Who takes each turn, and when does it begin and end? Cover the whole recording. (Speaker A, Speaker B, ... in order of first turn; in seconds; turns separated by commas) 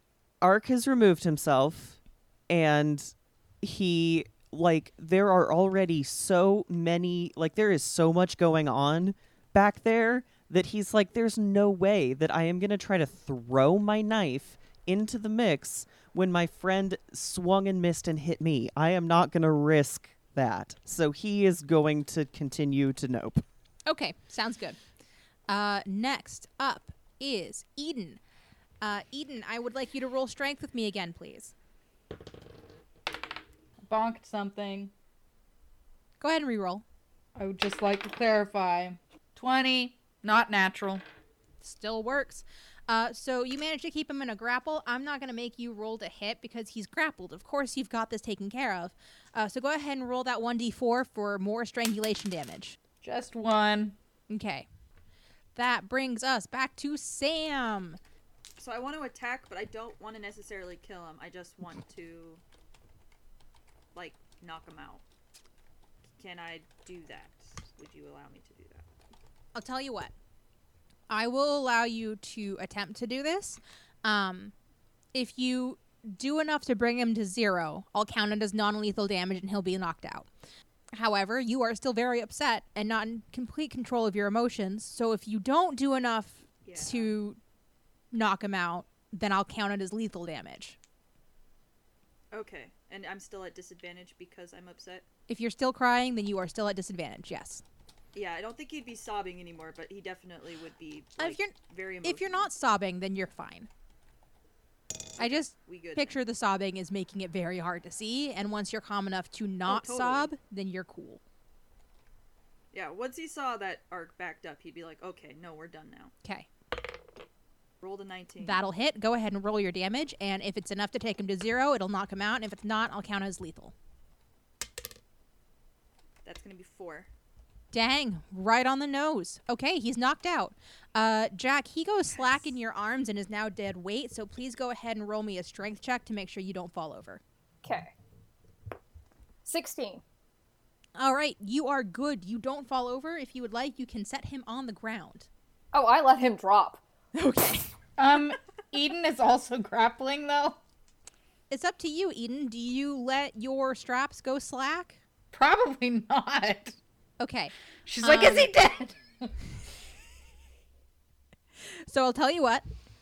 Speaker A: 0.4-23.4, Speaker B: 23.9-24.8, Speaker B: 25.5-28.2, Speaker B: 28.8-31.5, Speaker C: 33.8-34.9, Speaker B: 36.2-36.8, Speaker C: 37.4-41.0, Speaker B: 41.6-52.8, Speaker C: 53.0-54.0, Speaker B: 54.3-54.7, Speaker B: 55.5-58.0, Speaker D: 58.6-62.4, Speaker D: 63.9-65.0, Speaker D: 66.2-68.8, Speaker B: 69.5-70.1, Speaker B: 71.1-74.5, Speaker B: 75.1-80.3, Speaker B: 80.9-87.4, Speaker D: 86.7-87.1, Speaker B: 88.1-90.8, Speaker D: 92.3-95.0, Speaker B: 95.3-97.6, Speaker D: 98.1-102.5, Speaker B: 101.2-103.7, Speaker D: 105.2-106.2, Speaker B: 105.2-111.2, Speaker D: 109.7-110.3, Speaker D: 112.7-116.1, Speaker D: 117.8-118.6, Speaker B: 118.4-123.7, Speaker D: 126.2-127.1, Speaker B: 127.7-137.2, Speaker E: 137.6-137.9, Speaker E: 139.4-140.0, Speaker B: 141.0-145.3, Speaker E: 145.7-146.8, Speaker B: 147.1-147.7, Speaker C: 148.0-150.6, Speaker B: 151.5-155.0, Speaker C: 155.3-156.8, Speaker B: 157.2-158.5, Speaker C: 157.9-159.3, Speaker B: 161.9-162.7